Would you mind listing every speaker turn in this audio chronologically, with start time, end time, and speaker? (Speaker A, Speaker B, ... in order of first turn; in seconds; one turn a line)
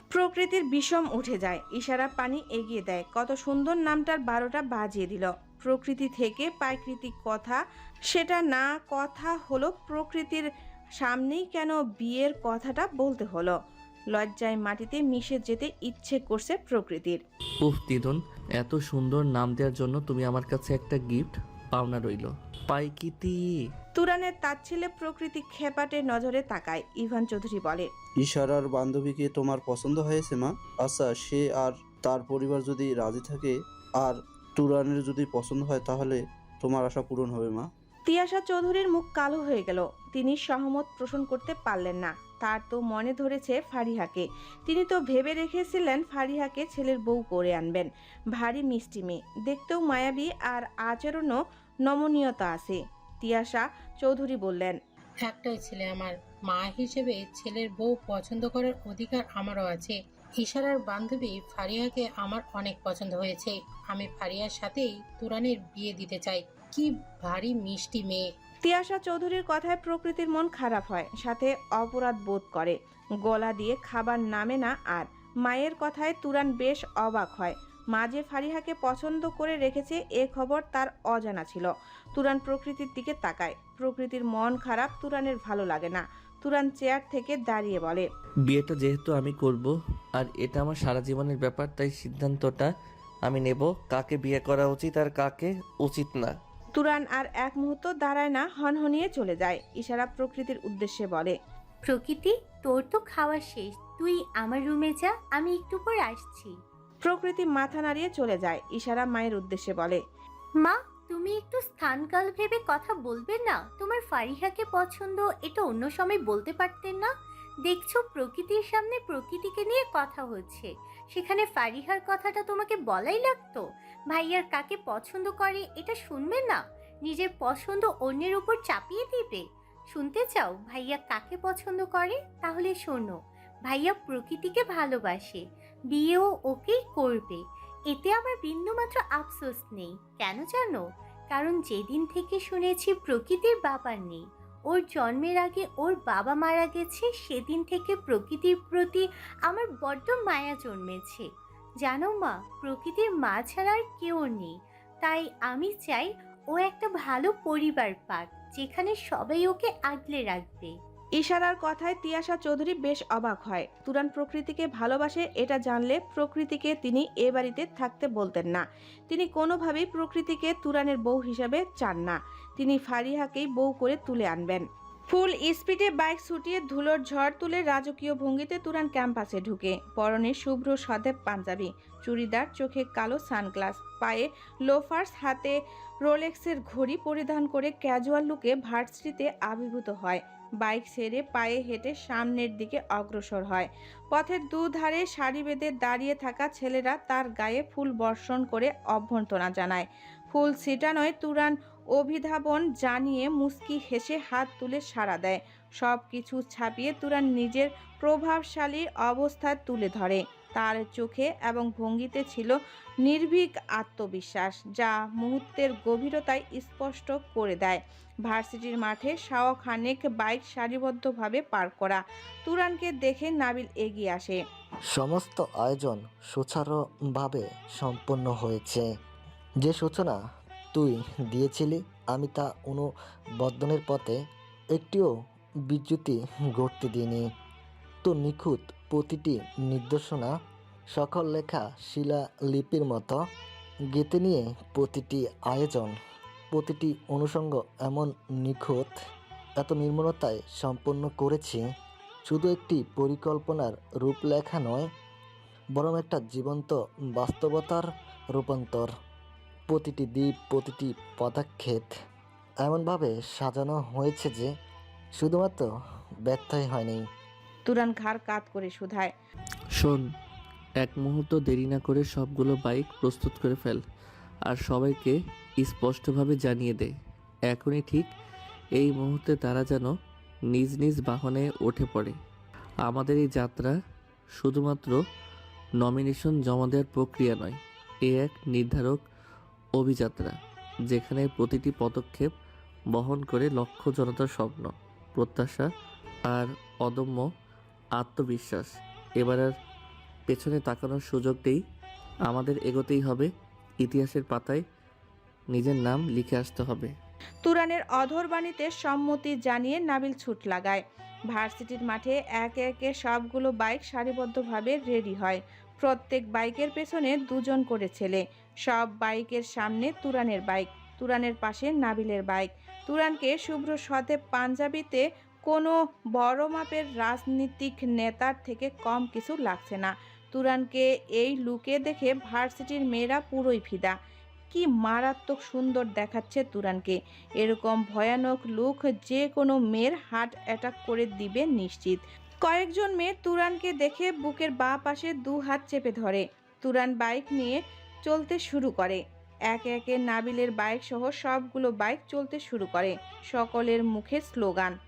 Speaker A: 0.1-10.4
Speaker A: 11.0-13.5
Speaker A: 14.1-17.2
Speaker B: 17.6-23.5
Speaker A: 23.9-27.9
Speaker C: 28.2-37.7
Speaker A: 38.0-54.8
Speaker D: 55.2-68.2
Speaker A: 68.6-88.0
Speaker B: 88.5-92.7
Speaker B: 93.2-96.3
Speaker A: 96.7-101.3
Speaker E: 101.8-106.5
Speaker A: 107.0-110.0
Speaker E: 110.6-117.1
Speaker E: 117.7-133.2
Speaker E: 133.7-151.3
Speaker E: 151.8-160.7
Speaker A: 161.2-224.4
Speaker F: 224.9-228.9
Speaker F: 229.6-230.2
Speaker F: 230.7-232.9
Speaker F: 233.4-234.2
Speaker F: 234.7-235.1
Speaker F: 235.7-237.2
Speaker F: 238.0-240.3
Speaker F: 240.9-243.2
Speaker F: 243.9-245.9
Speaker F: 246.5-248.9
Speaker F: 249.6-251.6
Speaker F: 252.2-254.9
Speaker F: 255.7-258.9
Speaker F: 259.7-261.9
Speaker F: 262.6-264.5
Speaker F: 265.2-265.7
Speaker F: 266.2-267.0
Speaker A: 267.6-269.1
Speaker B: 269.8-270.0
Speaker B: 270.8-273.8
Speaker B: 274.5-276.9
Speaker B: 277.5-278.1
Speaker B: 278.8-279.9
Speaker B: 280.5-282.2
Speaker B: 282.9-283.8
Speaker B: 284.4-285.0
Speaker B: 285.8-289.0
Speaker B: 289.8-292.3
Speaker B: 292.9-295.7
Speaker B: 296.3-297.3
Speaker B: 297.9-299.6
Speaker B: 300.3-301.6
Speaker B: 302.3-303.3
Speaker B: 303.8-304.6
Speaker B: 305.5-306.9
Speaker A: 307.4-333.9
Speaker A: 334.5-354.8